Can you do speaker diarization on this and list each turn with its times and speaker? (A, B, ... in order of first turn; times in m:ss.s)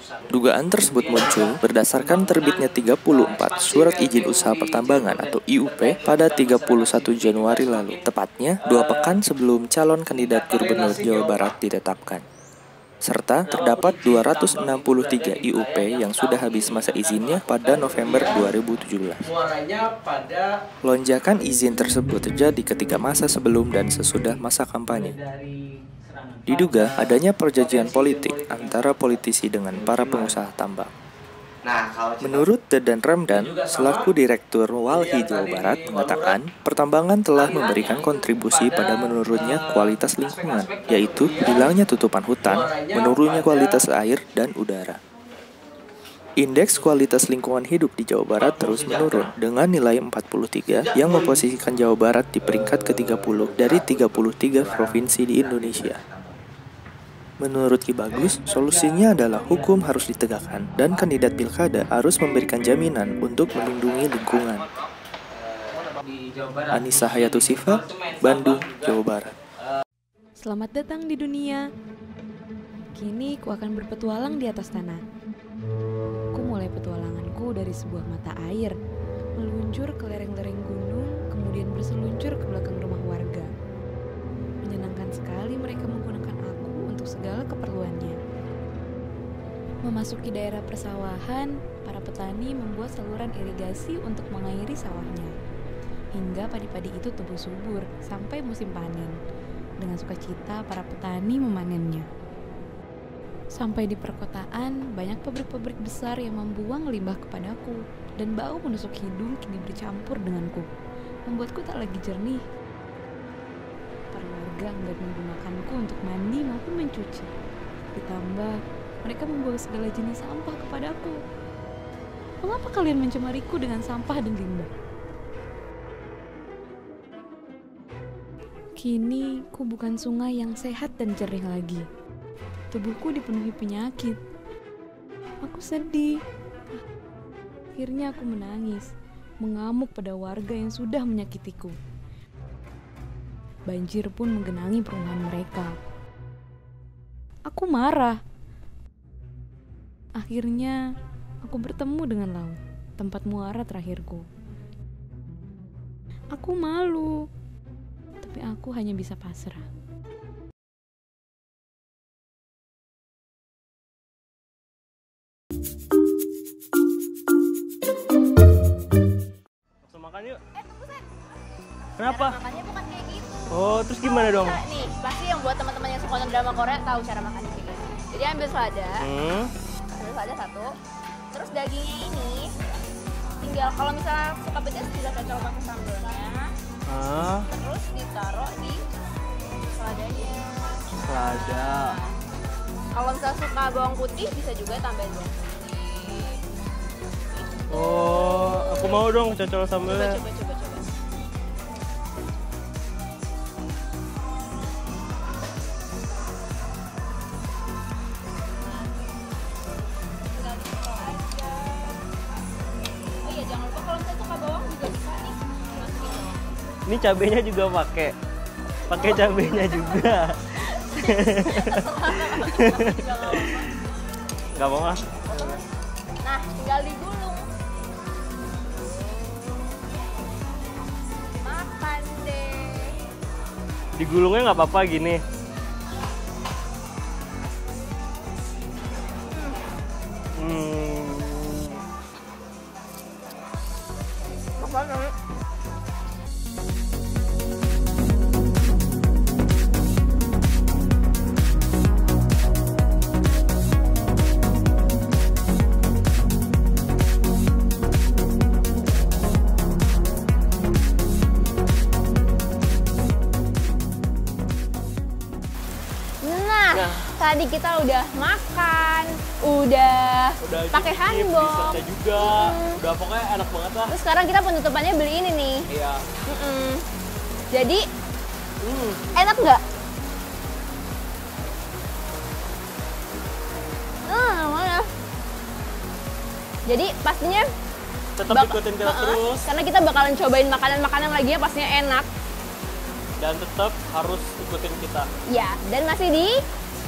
0:00.3-0:12.2 A
0:13.0-0:19.2 A
0:20.8-0:25.2 A
0:26.5-0:30.9 A
0:32.2-0:45.0 A
0:46.4-0:56.0 A
0:57.4-1:04.7 A
1:06.7-1:09.3 A
1:10.4-1:11.6 B
1:13.0-1:15.0 B
1:16.4-1:18.7 B
1:19.4-1:23.5 B
1:24.6-1:28.2 B
1:29.9-1:35.3 B
1:36.2-1:39.2 B
1:39.8-1:42.0 B
1:43.6-1:50.7 B
1:51.3-1:52.4 B
1:54.1-1:57.3 B
1:58.0-2:01.2 B
2:02.4-2:04.7 B
2:08.8-2:11.8 B
2:12.7-2:14.2 B
2:15.4-2:16.1 B
2:17.8-2:18.9 B
2:19.4-2:21.8 B
2:23.7-2:25.7 B
2:27.5-2:28.2 B
2:30.2-2:30.8 B
2:31.4-2:34.2 B
2:36.4-2:37.2 B
2:38.2-2:39.6 B
2:49.9-2:50.4 C
2:50.5-2:51.1 D
2:52.0-2:52.4 C
2:52.0-2:59.1 D
2:53.5-2:54.6 C
2:59.0-2:59.5 C
2:59.9-3:00.7 D
3:01.3-3:02.5 D
3:03.4-3:06.5 D
3:06.9-3:07.5 C
3:07.5-3:08.8 D
3:09.7-3:12.1 D
3:11.1-3:11.9 C
3:13.0-3:16.3 D
3:17.4-3:19.2 D
3:17.7-3:20.1 C
3:19.9-3:20.9 D
3:28.6-3:29.0 D
3:30.3-3:32.0 D
3:33.2-3:36.4 D
3:36.9-3:38.1 C
3:38.9-3:40.4 C
3:38.9-3:40.2 D
3:40.7-3:43.7 D
3:41.0-3:41.8 C
3:42.4-3:43.5 C
3:44.6-3:45.6 C
3:45.3-3:45.6 D
3:46.2-3:47.4 D
3:51.3-3:52.9 D
3:54.0-3:55.2 C
4:00.4-4:01.8 C
4:04.6-4:05.1 D
4:26.2-4:32.8 D
4:26.8-4:27.1 C
4:30.4-4:33.9 C
4:33.9-4:35.6 D
4:35.7-4:36.0 C
4:36.3-4:36.8 D
4:37.5-4:37.8 D
4:38.6-4:39.1 C
4:39.1-4:39.6 D
4:44.1-4:44.9 D
4:46.7-4:47.5 D
4:48.2-4:49.5 C
4:48.3-4:52.1 D
4:53.2-4:55.1 C
4:55.3-4:56.4 D